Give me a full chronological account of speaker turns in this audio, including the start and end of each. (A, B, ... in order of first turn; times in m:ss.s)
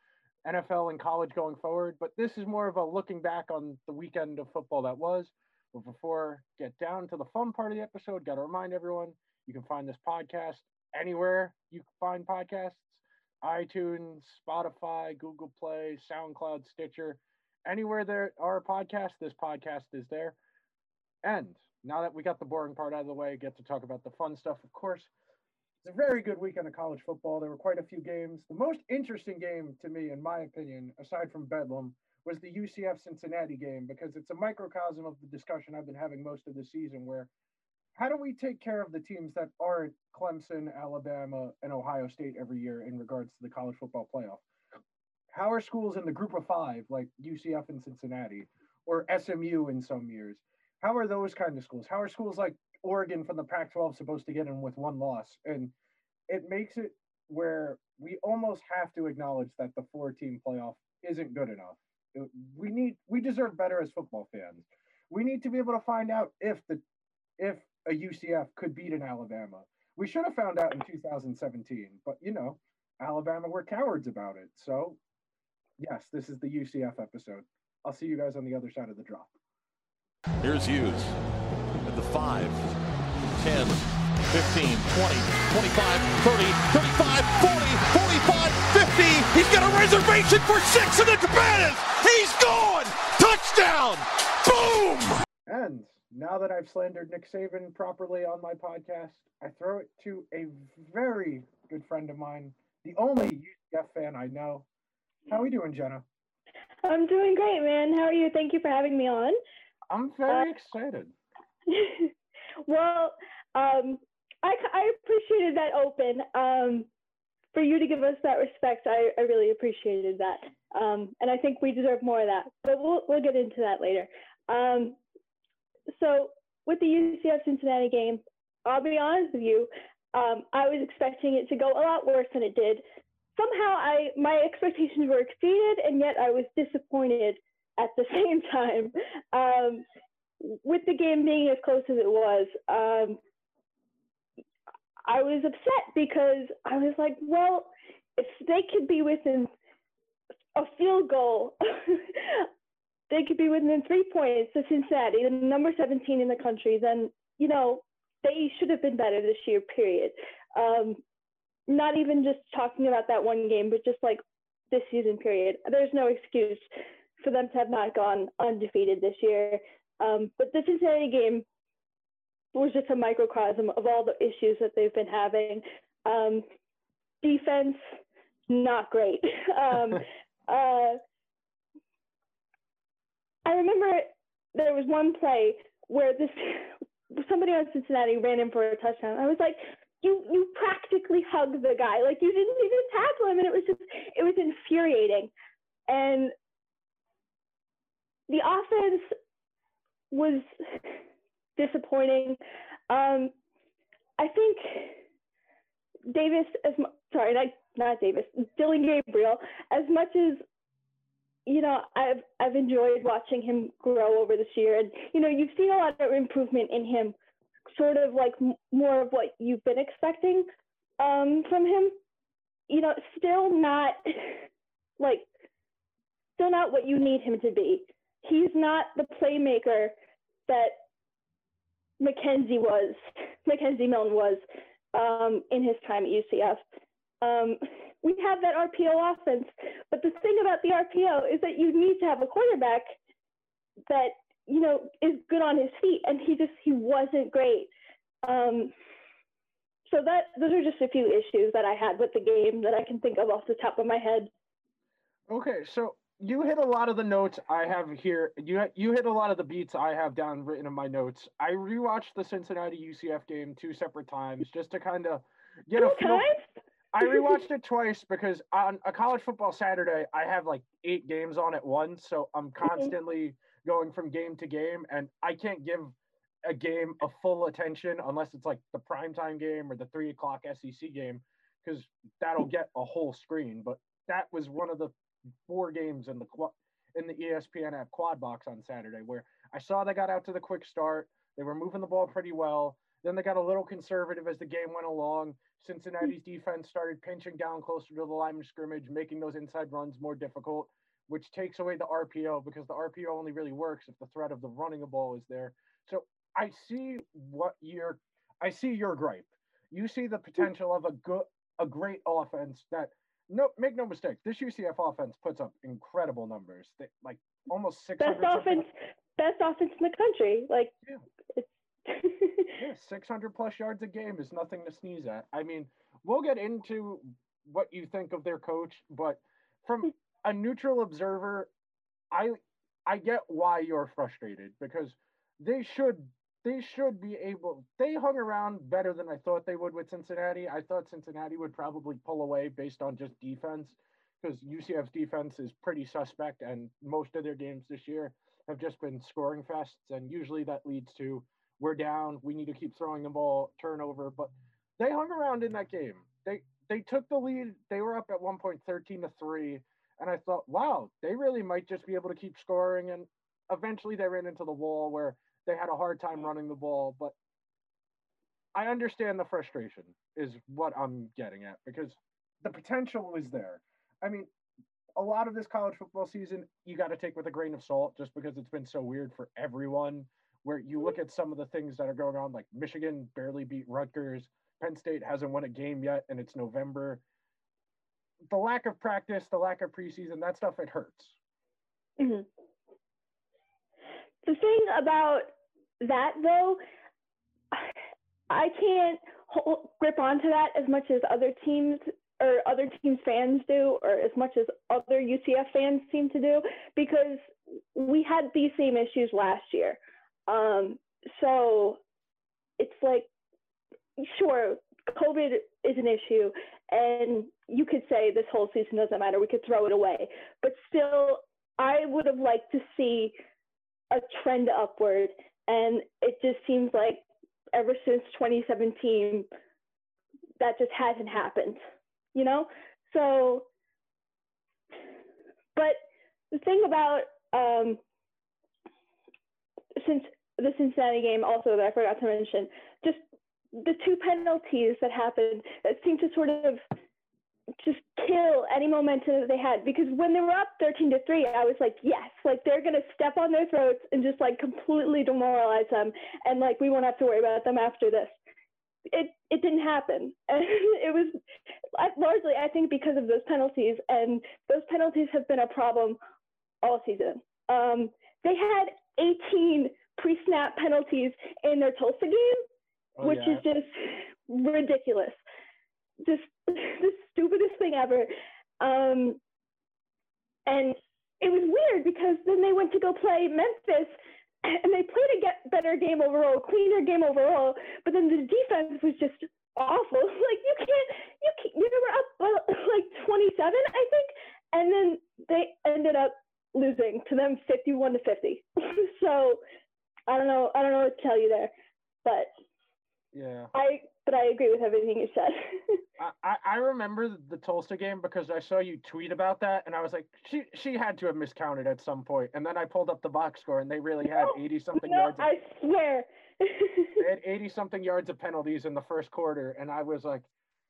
0:00.4-0:20.4 A
0:21.2-0:25.1 A
0:25.8-0:37.3 A
0:38.0-0:44.4 A
0:45.3-0:55.7 A
0:56.3-1:06.8 A
1:07.4-1:15.0 A
1:15.8-1:19.3 A
1:20.4-1:21.2 B
1:21.8-1:22.8 B
1:23.3-1:35.2 B
1:35.4-1:44.6 A
1:45.3-1:46.0 A
1:46.8-1:49.4 C
1:49.9-1:51.1 A
1:51.6-1:52.1 C
1:52.6-1:56.9 C
1:57.5-2:05.0 C
2:05.9-2:12.8 C
2:13.4-2:19.8 C
2:20.4-2:23.2 C
2:25.0-2:29.5 C
2:30.5-2:32.5 C
2:33.1-2:41.0 C
2:41.7-2:46.6 C
2:47.2-2:51.4 C
2:52.5-2:56.4 C
2:57.2-2:58.0 C
2:58.5-3:01.0 C
3:03.4-3:15.3 C
3:15.9-3:16.3 C
3:18.3-3:19.1 C
3:20.1-3:21.0 C
3:21.6-3:22.4 C
3:22.9-3:23.3 C
3:24.2-3:25.0 C
3:26.1-3:30.4 C
3:31.4-3:37.2 C
3:37.7-3:40.5 C
3:41.0-3:42.0 C
3:42.7-3:44.5 C
3:45.0-3:45.3 C
3:46.4-3:49.9 C
3:50.5-3:50.8 C
3:52.0-3:54.4 C
3:54.9-3:56.6 C
3:57.2-4:03.0 C
4:03.9-4:07.7 C
4:08.2-4:08.7 C
4:09.9-4:14.3 C
4:15.3-4:26.3 A
4:25.7-4:26.4 C
4:26.9-4:44.9 A
4:27.0-4:27.4 C
4:32.6-4:32.9 C
4:45.4-5:18.6 A
5:18.0-5:20.7 C
5:21.3-5:22.5 C
5:22.5-5:31.5 A
5:32.1-6:07.1 A
6:08.5-6:14.3 A
6:15.0-6:27.0 A
6:28.3-6:31.1 A
6:32.0-6:32.3 C
6:34.2-6:36.6 C
6:38.3-6:51.8 C
6:52.6-6:53.1 C
6:54.0-7:03.1 C
7:03.9-7:09.3 C
7:10.4-7:11.6 C
7:12.1-7:13.5 C
7:16.3-7:17.8 C
7:19.8-7:23.0 C
7:23.5-7:26.6 C
7:27.6-7:38.1 C
7:38.9-7:41.2 C
7:41.7-7:46.0 C
7:46.6-7:52.4 C
7:53.0-7:53.4 A
7:53.0-7:55.2 C
7:56.0-7:58.1 C
7:58.6-7:59.2 C
8:00.5-8:19.4 C
8:20.1-8:21.5 C
8:22.0-8:22.3 C
8:23.1-8:23.5 A
8:23.5-8:25.8 C
8:26.0-8:35.3 A
8:34.1-8:37.0 C
8:37.0-8:40.3 A